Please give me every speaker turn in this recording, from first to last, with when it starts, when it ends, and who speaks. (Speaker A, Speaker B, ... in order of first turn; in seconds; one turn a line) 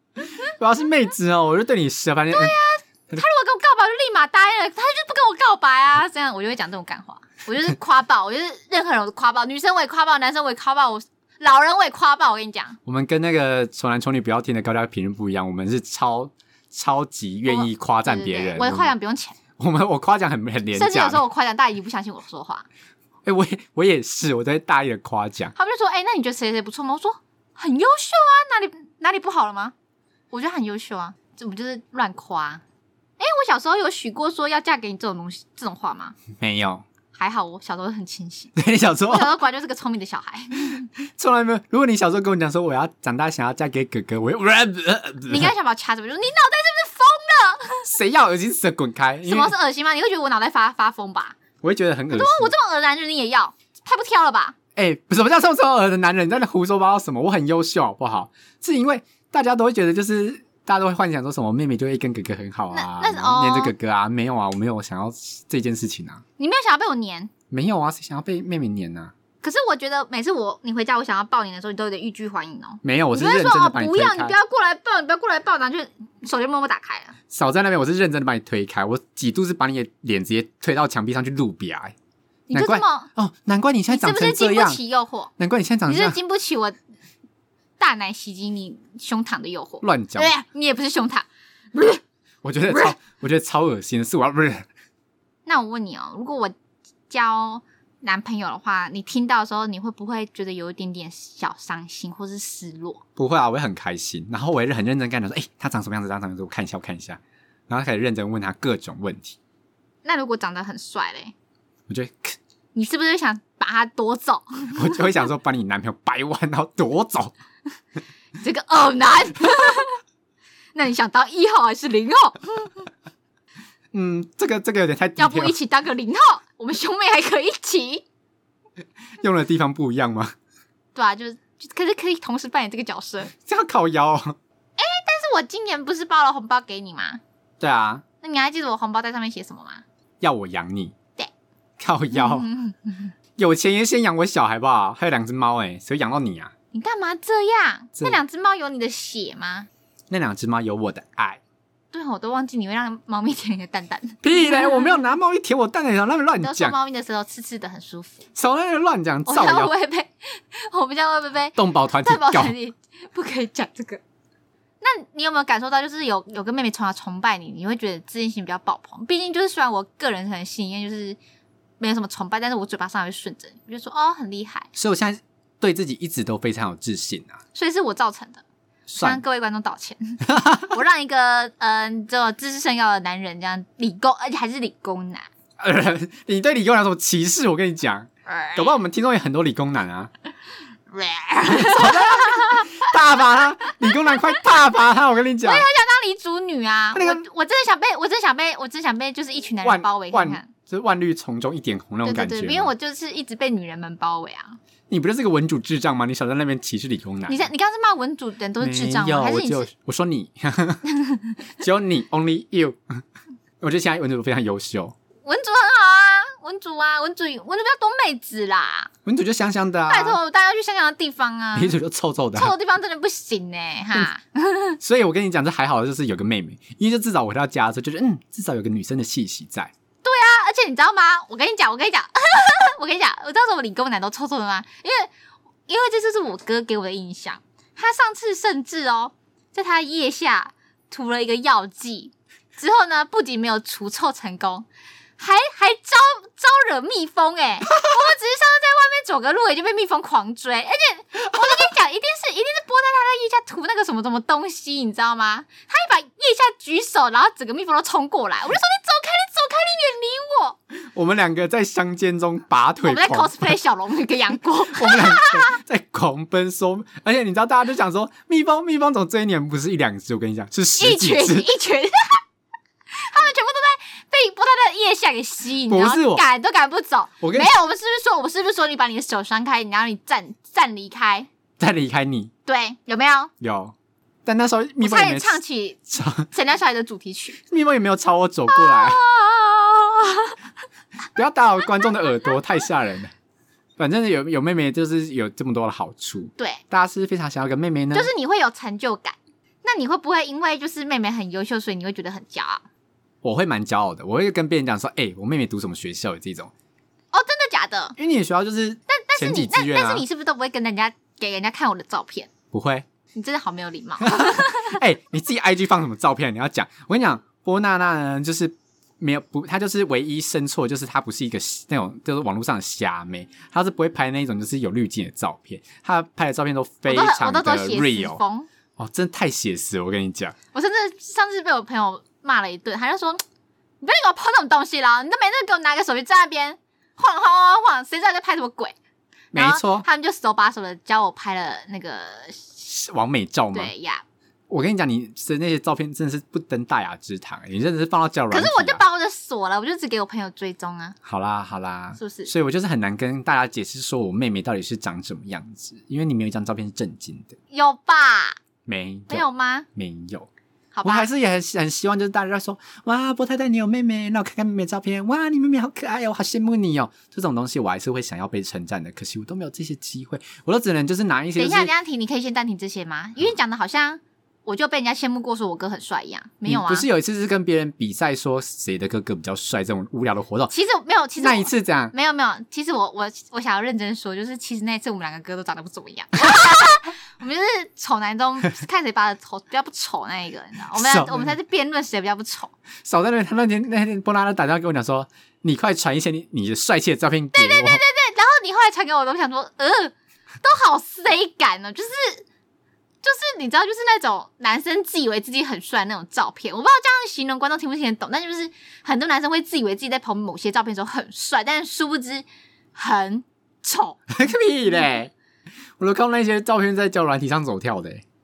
Speaker A: 0.3-2.5
Speaker B: 2.3-12.8
Speaker A: 12.9-18.9
Speaker B: 17.5-19.4
Speaker A: 19.6-21.2
Speaker B: 20.7-22.7
Speaker A: 23.2-25.5
Speaker B: 25.6-29.7
Speaker B: 30.3-32.6
Speaker B: 33.2-36.2
Speaker A: 36.4-36.9
Speaker B: 37.1-38.5
Speaker A: 38.6-39.3
Speaker B: 39.1-40.9
Speaker A: 41.0-45.5
Speaker B: 45.3-47.9
Speaker A: 47.9-49.5
Speaker B: 49.3-51.4
Speaker A: 51.6-52.5
Speaker B: 52.1-54.5
Speaker A: 54.8-66.2
Speaker B: 62.7-63.7
Speaker B: 66.4-67.3
Speaker A: 67.5-69.1
Speaker B: 69.4-77.2
Speaker A: 72.8-74.4
Speaker A: 77.3-82.0
Speaker B: 82.5-83.1
Speaker A: 82.5-84.8
Speaker B: 83.9-85.3
Speaker A: 85.4-86.2
Speaker B: 85.9-86.8
Speaker B: 87.8-92.0
Speaker A: 89.8-90.3
Speaker A: 92.4-94.7
Speaker B: 95.5-96.5
Speaker B: 97.1-103.0
Speaker A: 103.2-109.4
Speaker B: 110.0-111.3
Speaker A: 111.9-112.4
Speaker B: 112.8-115.2
Speaker A: 114.8-117.3
Speaker B: 118.4-120.0
Speaker B: 120.8-122.9
Speaker A: 123.9-125.5
Speaker B: 125.2-128.1
Speaker A: 129.2-130.3
Speaker B: 130.9-133.3
Speaker A: 133.3-134.4
Speaker B: 134.8-137.2
Speaker A: 137.6-138.0
Speaker B: 138.2-139.8
Speaker A: 140.2-140.9
Speaker A: 141.8-142.5
Speaker B: 142.1-143.1
Speaker A: 143.4-146.5
Speaker B: 146.7-149.7
Speaker A: 150.1-151.4
Speaker B: 151.9-155.0
Speaker A: 154.2-156.8
Speaker B: 156.4-158.3
Speaker A: 158.3-159.7
Speaker B: 159.3-164.0
Speaker A: 161.6-162.6
Speaker B: 164.8-171.2
Speaker B: 171.8-174.7
Speaker A: 174.8-177.4
Speaker B: 177.6-178.4
Speaker A: 178.9-179.2
Speaker B: 179.0-185.3
Speaker A: 180.3-180.8
Speaker A: 185.6-190.1
Speaker B: 188.3-188.7
Speaker B: 190.9-192.9
Speaker A: 191.4-195.7
Speaker B: 195.4-200.5
Speaker A: 196.9-197.2
Speaker A: 199.6-202.7
Speaker B: 202.0-204.6
Speaker A: 204.9-207.5
Speaker B: 207.3-209.7
Speaker A: 208.6-210.8
Speaker B: 210.9-211.4
Speaker A: 211.6-213.0
Speaker A: 213.6-214.9
Speaker B: 215.2-218.9
Speaker A: 219.1-220.2
Speaker B: 219.9-221.8
Speaker A: 221.6-222.6
Speaker B: 222.3-224.8
Speaker A: 224.8-229.7
Speaker B: 230.0-235.1
Speaker B: 235.7-244.7
Speaker B: 245.2-260.6
Speaker A: 260.8-263.5
Speaker B: 262.8-265.6
Speaker A: 264.7-271.5
Speaker B: 270.8-272.2
Speaker B: 272.9-281.3
Speaker A: 275.7-276.2
Speaker A: 277.2-277.5
Speaker A: 281.6-282.3
Speaker B: 282.5-283.3
Speaker A: 283.4-286.3
Speaker B: 284.8-285.8
Speaker B: 286.3-287.4
Speaker A: 287.5-289.0
Speaker B: 288.5-290.4
Speaker A: 291.1-293.1
Speaker A: 293.8-298.1
Speaker B: 296.4-296.6
Speaker B: 297.9-302.6
Speaker A: 303.2-306.5
Speaker B: 307.1-308.0
Speaker A: 308.0-310.1
Speaker B: 308.9-312.3
Speaker A: 312.5-312.9
Speaker B: 313.1-314.8
Speaker A: 314.0-328.2
Speaker B: 326.9-328.5
Speaker A: 328.8-330.4
Speaker B: 330.5-333.2
Speaker B: 333.8-338.8
Speaker A: 339.3-339.9
Speaker B: 339.3-342.6
Speaker A: 342.6-343.7
Speaker B: 343.5-344.0
Speaker A: 344.5-348.8
Speaker B: 348.3-351.0
Speaker A: 351.1-357.4
Speaker B: 352.0-352.3
Speaker B: 357.5-358.4
Speaker A: 358.7-360.3
Speaker B: 359.1-359.7
Speaker B: 360.7-361.1
Speaker A: 360.8-371.7
Speaker B: 371.4-376.9
Speaker A: 376.5-380.5
Speaker B: 380.5-392.6
Speaker A: 381.2-381.9
Speaker A: 390.7-391.4
Speaker A: 392.8-397.8
Speaker B: 397.3-402.2
Speaker B: 403.0-414.1
Speaker A: 414.1-415.1
Speaker A: 415.8-418.0